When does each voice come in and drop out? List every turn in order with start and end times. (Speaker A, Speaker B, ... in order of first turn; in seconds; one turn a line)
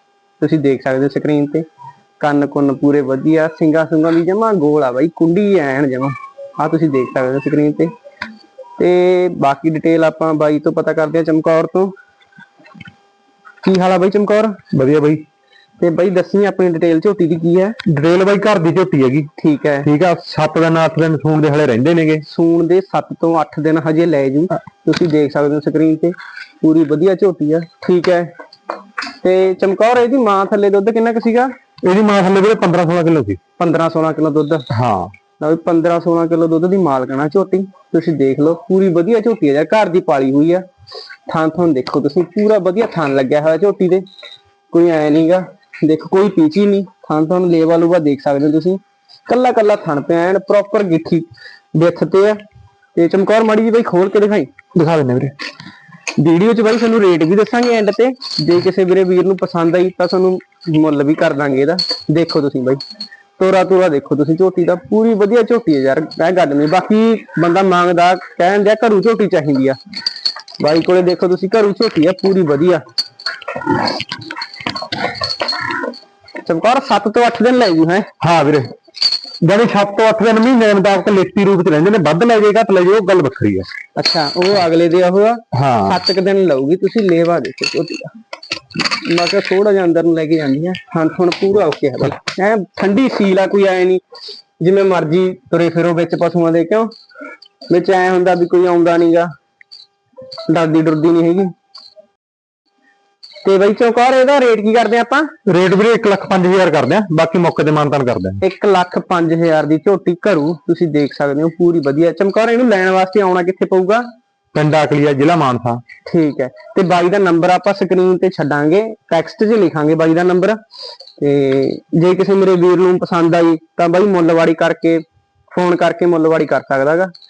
Speaker A: 0.4-1.7
Speaker A: 2.2-7.9
Speaker A: 8.8-11.9
Speaker A: 13.6-14.6
Speaker B: 14.7-15.2
Speaker A: 15.8-17.8
Speaker B: 17.9-19.3
Speaker A: 19.4-19.9
Speaker B: 19.9-22.2
Speaker A: 22.2-28.3
Speaker A: 29.2-31.5
Speaker B: 31.8-33.4
Speaker A: 33.6-34.7
Speaker B: 34.7-35.1
Speaker A: 35.4-40.6
Speaker A: 41.3-44.0
Speaker A: 44.7-52.4
Speaker A: 53.0-54.5
Speaker B: 54.8-55.4
Speaker A: 56.2-62.8
Speaker A: 63.4-69.8
Speaker A: 70.6-72.8
Speaker A: 76.4-78.1
Speaker B: 78.2-78.7
Speaker B: 79.4-83.7
Speaker A: 84.0-88.2
Speaker B: 85.5-86.0
Speaker A: 88.8-94.0
Speaker A: 94.6-96.9
Speaker A: 97.7-99.3
Speaker A: 100.5-101.5
Speaker A: 103.4-105.3
Speaker B: 105.5-108.4
Speaker A: 108.4-114.0
Speaker B: 114.5-115.8
Speaker A: 116.1-120.6
Speaker A: 121.2-127.1